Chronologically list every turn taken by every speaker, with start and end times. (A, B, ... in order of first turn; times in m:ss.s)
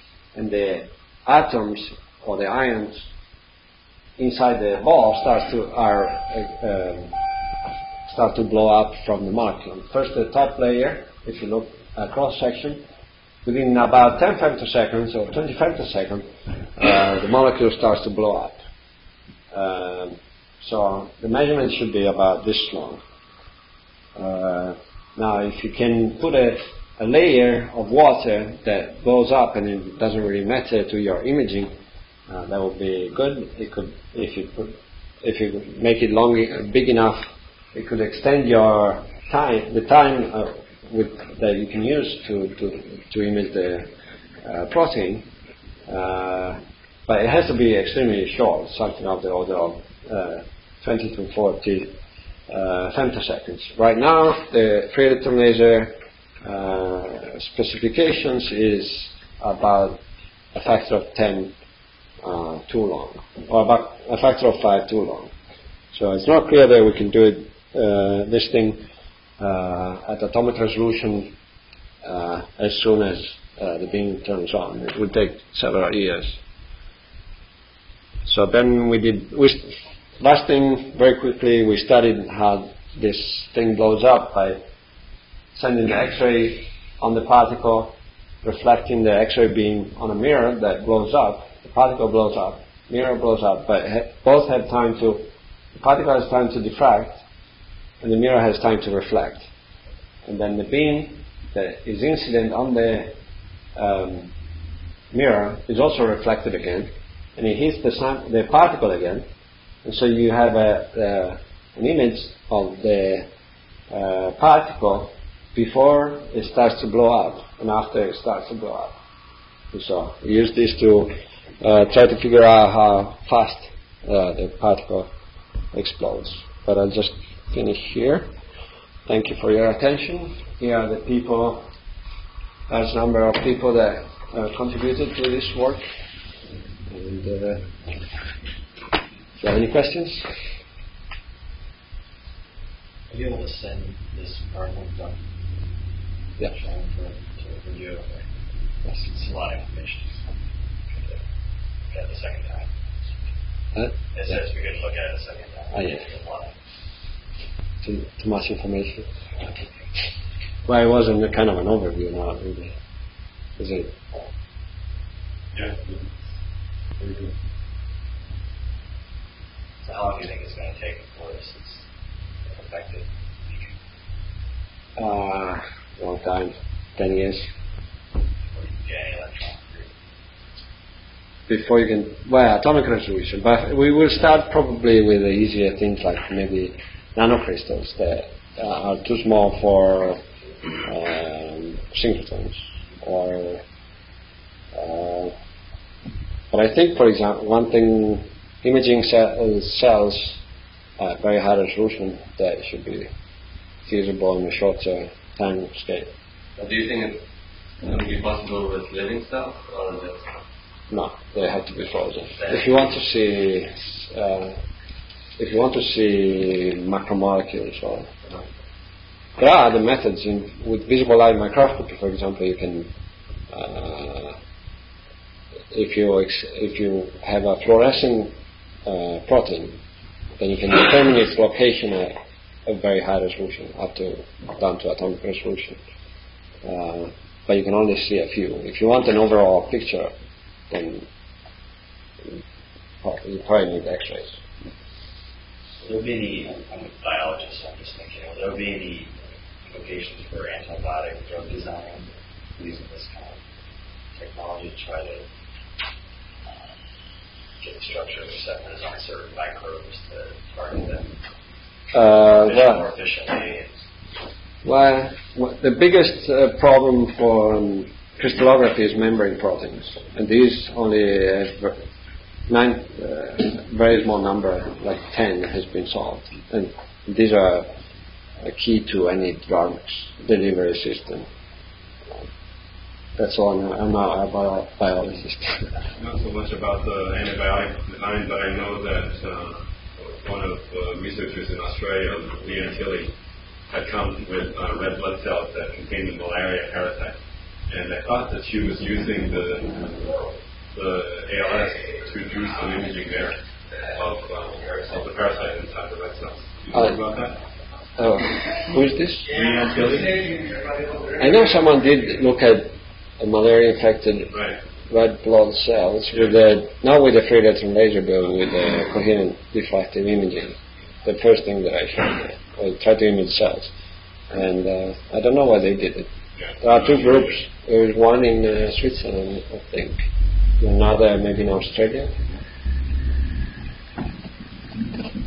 0:00.3-0:03.0 A
0:04.2-0:07.2 A
0:08.0-0:12.8 A
0:13.4-0:18.6 A
0:19.5-0:23.0 A
0:24.2-0:31.7 A
0:32.3-0:43.9 A
0:44.4-0:45.3 A
0:45.9-0:51.9 A
0:52.5-1:00.0 A
1:00.5-1:01.5 A
1:02.2-1:05.3 A
1:05.9-1:08.8 A
1:09.4-1:11.3 A
1:12.0-1:16.4 A
1:18.2-1:19.7 A
1:20.2-1:24.6 A
1:25.5-1:35.2 A
1:35.8-1:37.2 A
1:38.0-1:39.4 A
1:40.2-1:43.1 A
1:43.8-1:44.3 A
1:45.1-1:49.2 A
1:49.8-1:53.3 A
1:53.9-1:59.0 A
1:59.7-2:05.1 A
2:05.7-2:08.3 A
2:09.1-2:11.7 A
2:12.7-2:15.8 A
2:16.9-2:17.7 A
2:19.4-2:20.3 A
2:23.1-2:25.2 B
2:26.4-2:28.2 B
2:28.9-2:30.4 B
2:30.9-2:31.2 B
2:31.9-2:32.7 B
2:34.1-2:36.5 B
2:37.8-2:39.1 A
2:39.4-2:39.8 B
2:40.6-2:42.7 A
2:43.6-2:43.9 A
2:45.5-2:46.1 C
2:47.0-2:47.3 C
2:49.8-2:51.9 B
2:52.5-2:53.7 B
2:55.0-2:57.5 A
2:58.5-2:59.9 B
3:01.5-3:10.2 A
3:10.8-3:13.6 A
3:14.7-3:15.3 A
3:16.5-3:20.4 A
3:21.0-3:23.1 A
3:23.9-3:26.1 A
3:26.6-3:27.2 D
3:27.8-3:30.2 D
3:30.9-3:34.6 A
3:35.4-3:38.1 A
3:39.4-3:42.9 A
3:43.5-3:44.4 A
3:45.7-3:48.3 A
3:48.8-3:49.8 A
3:50.4-3:52.1 A
3:52.6-3:55.8 A
3:56.6-4:00.1 A
4:00.7-4:01.1 A
4:03.0-4:04.4 A
4:05.8-4:09.1 B
4:09.7-4:13.4 B
4:14.1-4:15.2 B
4:17.6-4:21.2 B
4:21.9-4:22.8 A
4:22.2-4:23.8 B
4:24.6-4:31.8 A
4:32.5-4:37.7 A
4:38.4-4:41.2 A
4:43.2-4:45.7 A
4:46.0-4:53.1 C
4:53.7-4:57.2 C
4:57.7-5:00.2 C
5:00.7-5:07.4 C
5:08.0-5:09.3 A
5:09.3-5:10.5 C
5:11.2-5:14.3 A
5:14.3-5:14.6 C
5:14.9-5:23.7 A
5:24.3-5:26.1 A
5:26.6-5:30.0 A
5:30.6-5:32.1 A